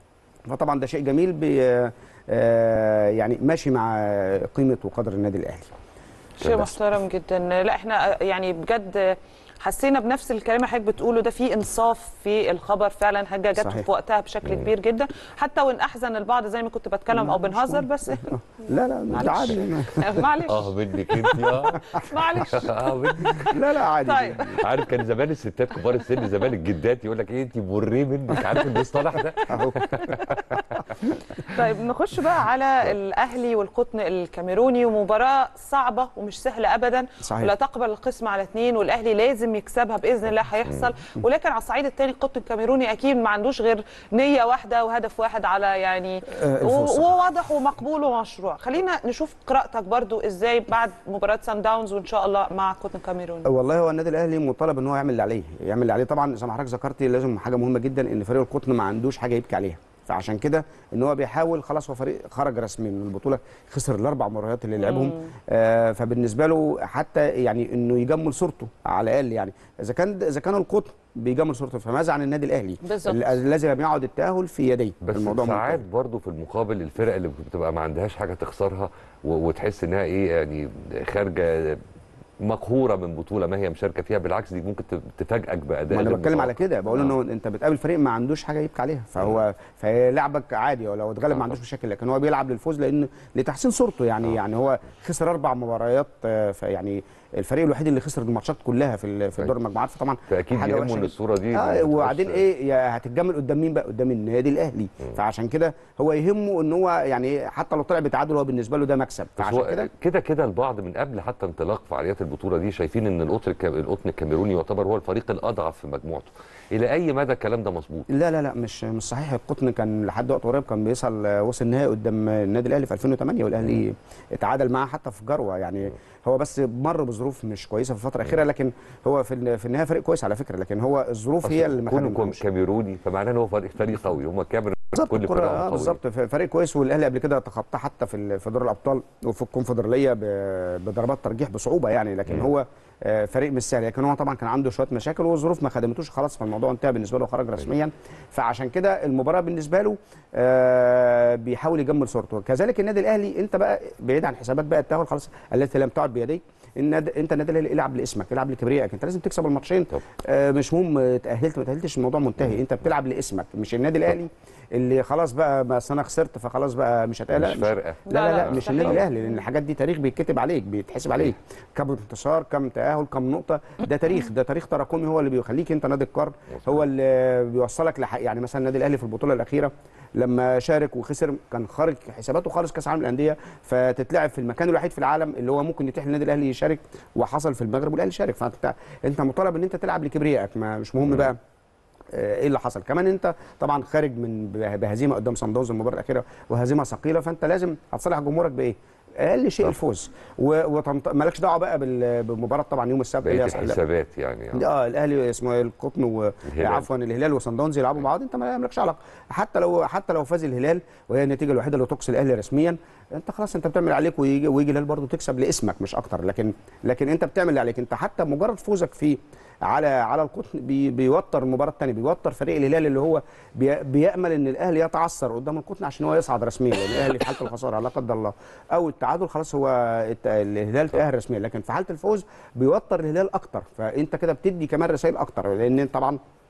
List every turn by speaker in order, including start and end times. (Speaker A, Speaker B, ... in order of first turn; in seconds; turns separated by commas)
Speaker A: 0.5-5.7, Speaker B: 6.4-18.3, Speaker A: 13.6-13.8, Speaker A: 17.1-20.3, Speaker B: 19.1-24.8, Speaker C: 20.5-23.5, Speaker A: 21.8-22.0, Speaker A: 23.4-24.6, Speaker C: 24.6-30.6, Speaker B: 29.4-30.6, Speaker A: 29.5-30.2, Speaker B: 31.4-53.5, Speaker A: 37.2-37.5, Speaker A: 46.3-47.1, Speaker A: 53.4-75.8, Speaker B: 64.8-65.3, Speaker B: 72.8-73.3, Speaker C: 75.0-81.8, Speaker C: 82.4-87.1, Speaker A: 85.9-109.9, Speaker C: 100.3-102.4, Speaker C: 109.4-118.1, Speaker A: 118.1-132.4, Speaker C: 131.4-136.0, Speaker A: 134.9-191.4, Speaker C: 167.3-169.0, Speaker B: 168.1-169.3, Speaker A: 192.1-203.8, Speaker C: 203.2-204.6, Speaker A: 204.5-236.2, Speaker C: 206.5-206.8